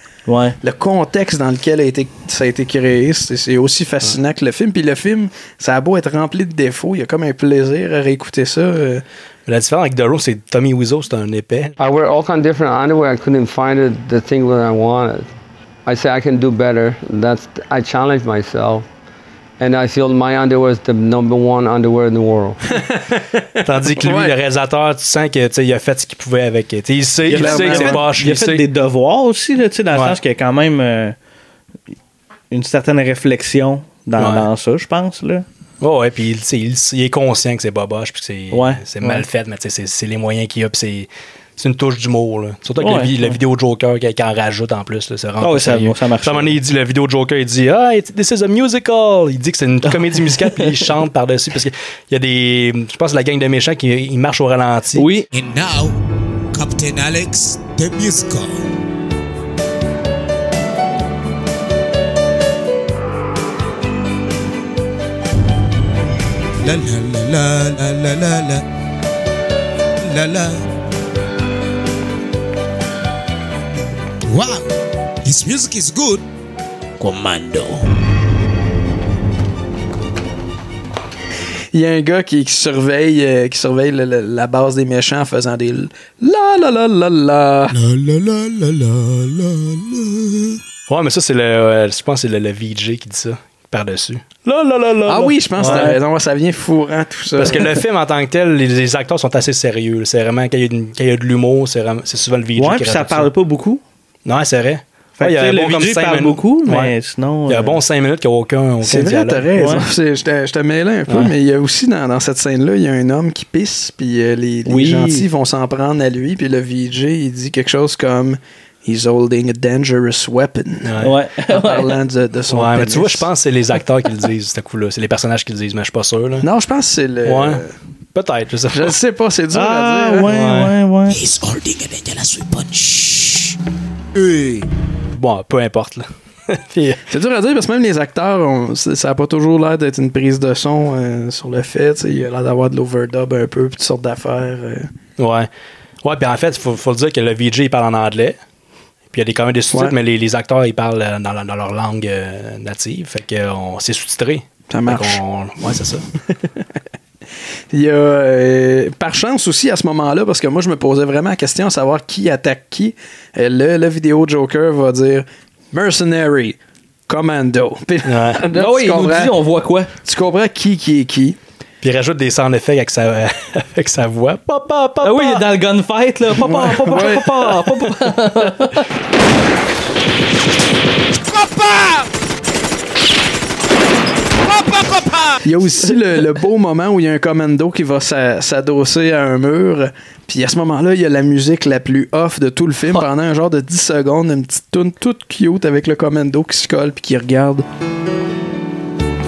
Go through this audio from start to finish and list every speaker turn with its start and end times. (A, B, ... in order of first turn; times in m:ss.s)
0:00.3-0:00.6 A
0:00.6-0:09.0 B
0:09.5-0:11.8 C
0:11.8-0:15.3 D
0:15.8-0:18.8 D
0:19.6-0:22.6 D
0:22.8-0:23.2 B
0:23.6-0:28.6 C
0:24.0-0:24.3 B
0:27.3-0:31.2 A
0:27.3-0:28.0 B
0:32.5-0:35.4 A
0:34.2-0:34.5 C
0:35.8-0:55.1 C
0:38.5-0:39.2 A
0:42.8-0:43.4 A
0:45.4-0:46.5 A
0:49.9-0:50.8 A
0:55.0-0:55.3 A
0:55.3-0:56.0 E
0:56.5-0:58.6 E
1:06.6-1:08.6 E
1:10.0-1:10.6 E
1:14.2-1:14.7 E
1:15.2-1:16.2 E
1:17.0-1:17.8 E
1:21.7-1:27.8 B
1:27.7-1:30.6 E
1:30.9-1:35.9 C
1:35.1-1:37.7 B
1:35.6-1:36.0 A
1:37.4-1:43.3 C
1:42.6-1:43.8 A
1:44.2-1:46.9 C
1:45.2-1:47.8 A
1:47.5-1:49.5 C
1:48.8-2:00.9 B
1:49.6-1:49.8 A
1:54.6-1:55.2 A
2:00.8-2:01.2 C
2:01.0-2:02.0 A
2:01.5-2:03.3 B
2:02.5-2:06.5 C
2:06.4-2:07.7 B
2:07.2-2:07.6 C
2:08.1-2:09.0 C
2:08.7-2:10.3 B
2:09.5-2:11.2 A
2:10.3-2:10.7 C
2:11.1-2:13.6 E
2:14.2-2:14.6 E
2:15.1-2:17.0 C
2:17.1-2:24.9 B
2:25.2-2:25.5 C
2:26.0-2:28.4 C
2:29.1-2:36.0 C
2:34.7-2:35.2 B
2:37.7-2:49.3 B
2:48.0-2:48.4 C
2:48.5-2:49.9 A
2:50.0-2:51.4 B
2:51.8-2:55.5 C
2:55.0-2:58.8 A
2:56.4-2:57.3 B
3:01.2-3:02.0 E
3:04.4-3:05.4 E
3:05.4-3:17.6 B